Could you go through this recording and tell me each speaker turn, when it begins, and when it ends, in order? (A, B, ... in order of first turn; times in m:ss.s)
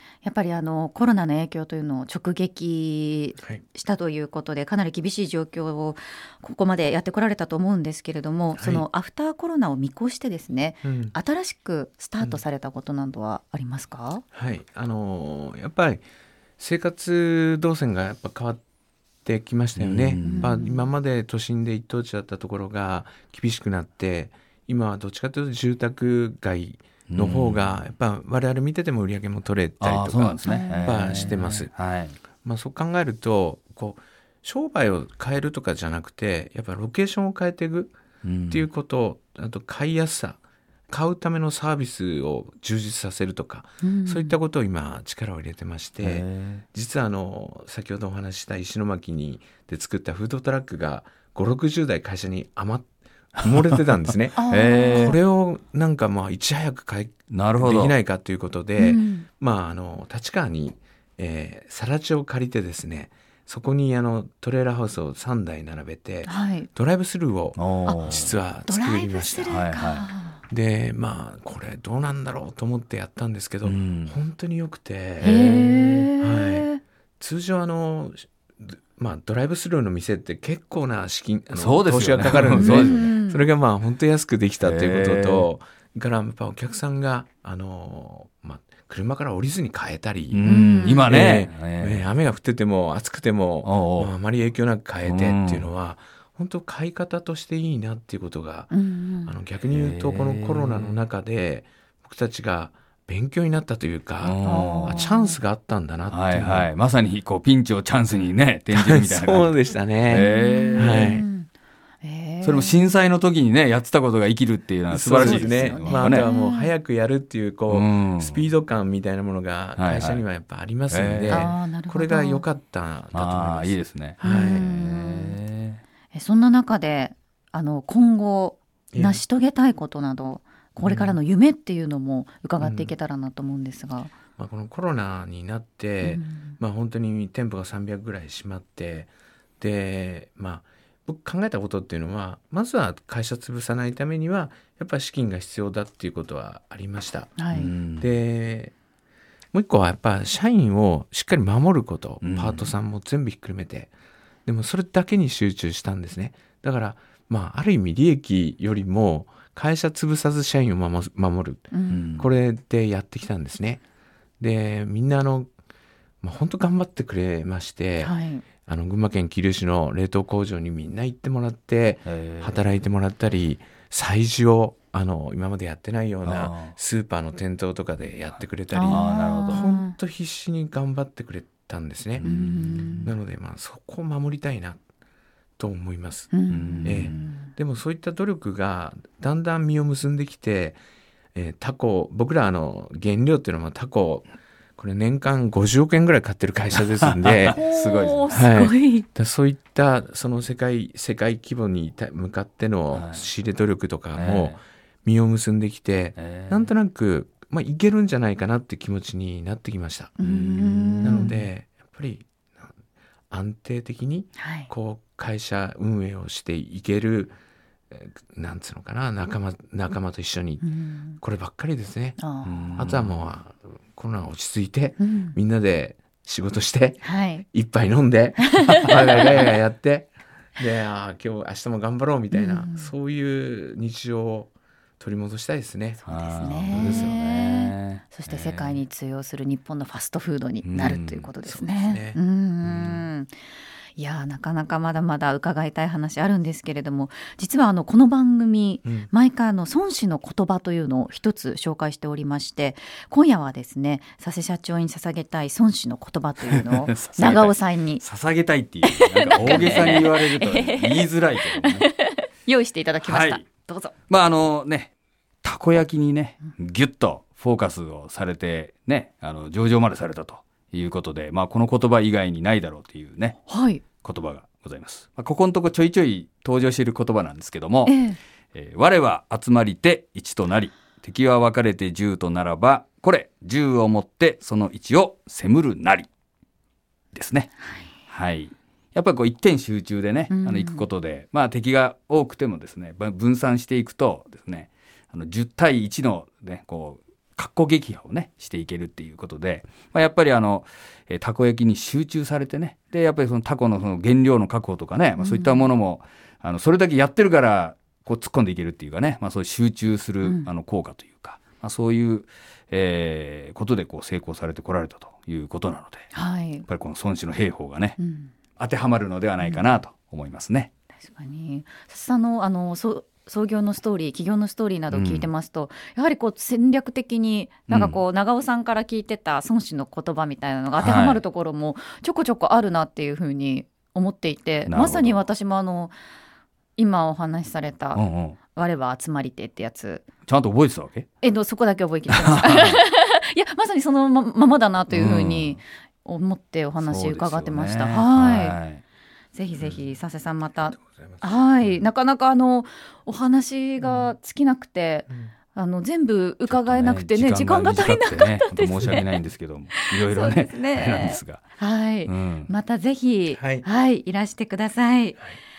0:00.2-0:14.2 A
0:08.6-0:08.8 B
0:10.8-0:11.2 B
0:14.3-0:16.1 B
0:16.6-0:18.6 B
0:19.2-0:31.7 B
0:19.8-0:20.6 C
0:20.2-0:20.9 A
0:27.1-0:27.8 C
0:29.8-0:32.2 C
0:30.4-0:31.3 A
0:32.4-0:38.0 B
0:38.2-0:38.7 C
0:38.5-1:09.7 B
0:43.8-0:44.4 A
0:46.0-0:46.6 C
0:53.4-0:55.2 C
0:54.4-0:55.2 A
0:57.3-0:58.0 C
0:58.8-0:59.3 A
1:06.2-1:06.7 A
1:07.6-1:08.3 C
1:07.9-1:08.1 A
1:08.7-1:10.4 A
1:09.5-1:10.1 C
1:10.5-1:15.4 B
1:13.6-1:14.2 C
1:15.2-1:16.1 C
1:15.2-1:16.8 A
1:16.2-1:30.5 B
1:21.5-1:23.1 C
1:22.6-1:23.5 A
1:24.6-1:25.5 C
1:30.3-1:32.1 C
1:30.4-1:31.1 A
1:31.1-1:38.7 B
1:33.6-1:34.1 C
1:35.0-1:35.7 C
1:38.7-1:39.4 A
1:39.2-1:46.7 B
1:39.7-1:41.0 C
1:44.2-1:45.0 C
1:44.4-1:45.4 A
1:46.1-1:49.6 C
1:48.7-1:51.2 B
1:50.1-1:51.1 C
1:50.1-1:51.5 A
1:52.0-1:52.9 A
1:52.4-1:56.3 C
1:54.9-2:04.8 B
1:55.1-1:56.7 A
1:57.7-1:58.5 C
1:59.8-2:00.2 C
2:00.9-2:01.5 C
2:01.3-2:02.4 A
2:03.1-2:05.8 C
2:04.2-2:05.4 A
2:06.1-2:14.2 A
2:08.9-2:09.2 B
2:10.8-2:11.2 B
2:12.6-2:12.9 B
2:14.4-2:27.4 B
2:16.0-2:16.6 A
2:27.4-2:27.7 A
2:27.5-2:28.1 C
2:28.0-2:28.7 B
2:29.5-2:33.9 B
2:32.2-2:32.7 C
2:34.5-2:43.8 B
2:41.7-2:42.1 A
2:41.9-2:42.3 C
2:44.4-2:45.5 B
2:46.2-3:04.8 B
2:48.0-2:48.4 A
2:52.0-2:52.6 C
2:56.2-2:56.8 C
2:58.7-3:00.0 A
2:58.8-2:59.7 C
3:02.2-3:03.1 C
3:02.2-3:03.1 A
3:05.6-3:06.3 B
3:06.3-3:07.5 A
3:06.5-3:07.2 C
3:06.8-3:10.8 B
3:11.4-3:17.6 B
3:17.2-3:18.4 C
3:17.5-3:19.1 A
3:18.3-3:30.1 B
3:22.9-3:23.3 C
3:24.1-3:24.6 C
3:26.2-3:26.7 C
3:30.2-3:31.5 A
3:30.2-3:31.3 C
3:31.0-3:32.7 B
3:33.3-3:37.4 B
3:34.4-3:34.7 A
3:37.9-3:40.6 B
3:40.6-3:41.2 A
3:41.2-3:42.2 B
3:42.2-3:42.8 A
3:42.4-3:43.3 C
3:42.8-3:56.0 B
3:45.0-3:45.4 A
3:47.0-3:47.5 A
3:48.4-3:49.4 A
3:52.3-3:52.9 A
3:56.0-4:03.3 A
3:56.1-3:58.8 C
3:56.7-3:57.2 B
4:00.6-4:01.3 C
4:00.8-4:02.2 B
4:02.6-4:03.1 C
4:04.0-4:18.0 A
4:08.8-4:09.1 B
4:16.5-4:21.9 C
4:18.9-4:23.9 A
4:23.0-4:23.4 C
4:24.1-4:24.9 C
4:25.4-4:33.4 C
4:33.5-4:33.8 A
4:34.0-4:38.0 C
4:37.9-4:38.2 A
4:38.5-4:46.1 C
4:47.1-5:16.1 C
4:50.3-4:50.9 A
5:05.2-5:05.7 A
5:10.2-5:10.5 A
5:16.1-5:16.7 A
5:16.7-5:18.0 C
5:18.0-5:18.3 A
5:18.6-5:20.7 C
5:19.4-5:19.7 A
5:21.0-5:35.9 A
5:24.9-5:25.3 C
5:27.7-5:28.0 C
5:30.8-5:31.2 C
5:34.7-5:35.2 C
5:36.8-5:40.1 A
5:37.9-5:38.4 C
5:40.3-5:41.1 C
5:41.2-5:48.6 A
5:42.1-5:42.8 C
5:44.9-5:45.6 C
5:46.8-5:48.8 C
5:49.3-5:59.1 A
5:49.6-5:50.0 B
5:50.6-5:51.9 B
5:53.8-5:54.1 B
5:56.5-6:01.4 C
5:59.8-6:05.3 A
6:02.1-6:02.5 C
6:03.3-6:03.7 B